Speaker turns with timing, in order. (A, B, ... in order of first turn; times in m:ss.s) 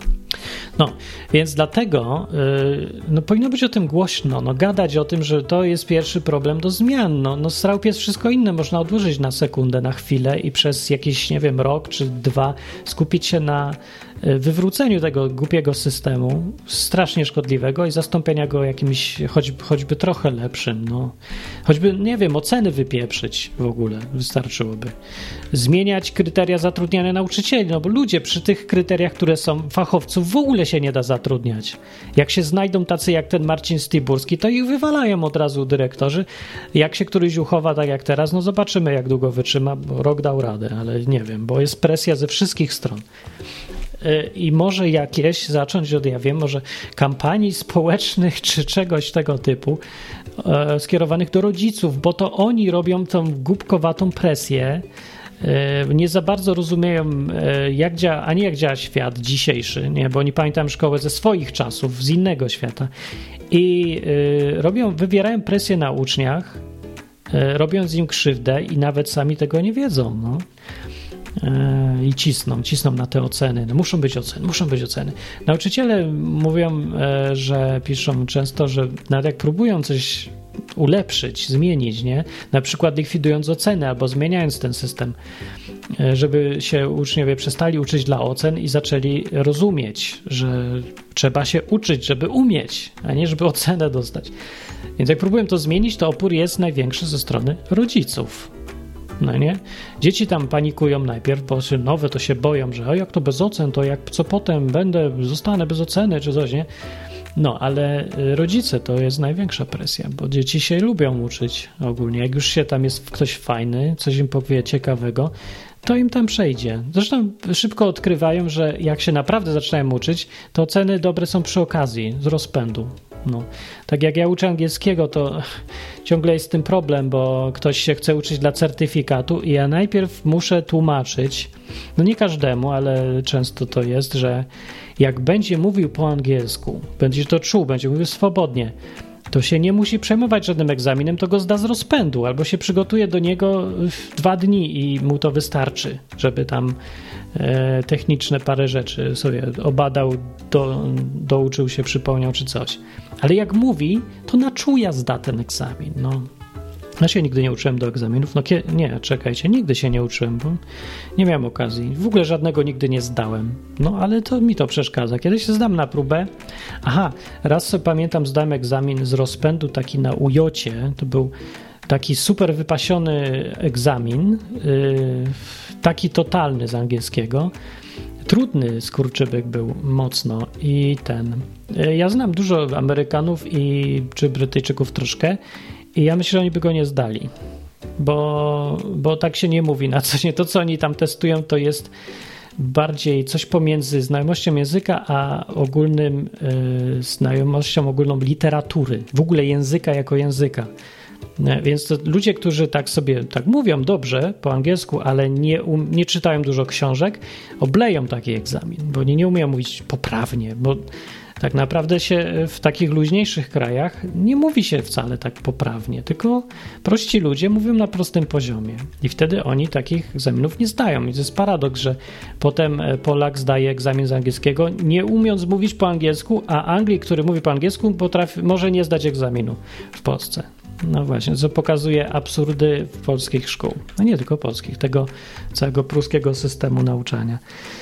0:00.8-0:24.9 A
0:25.5-0:43.0 A
0:44.0-0:49.8 A
0:50.4-0:54.8 A
0:55.4-1:02.9 A
1:03.5-1:06.6 A
1:07.3-1:10.4 A
1:11.4-1:25.1 A
1:25.9-1:34.3 A
1:35.0-1:38.5 A
1:39.2-1:46.7 A
1:47.4-2:05.4 A
2:06.0-2:14.5 A
2:15.0-2:18.8 A
2:19.3-2:26.8 A
2:27.4-2:36.3 A
2:37.0-2:40.6 A
2:41.2-2:46.3 A
2:46.8-2:51.3 A
2:51.9-2:57.5 A
2:58.2-3:05.4 A
3:05.9-3:07.3 A
3:08.0-3:11.9 A
3:12.6-3:20.7 A
3:21.4-3:57.4 A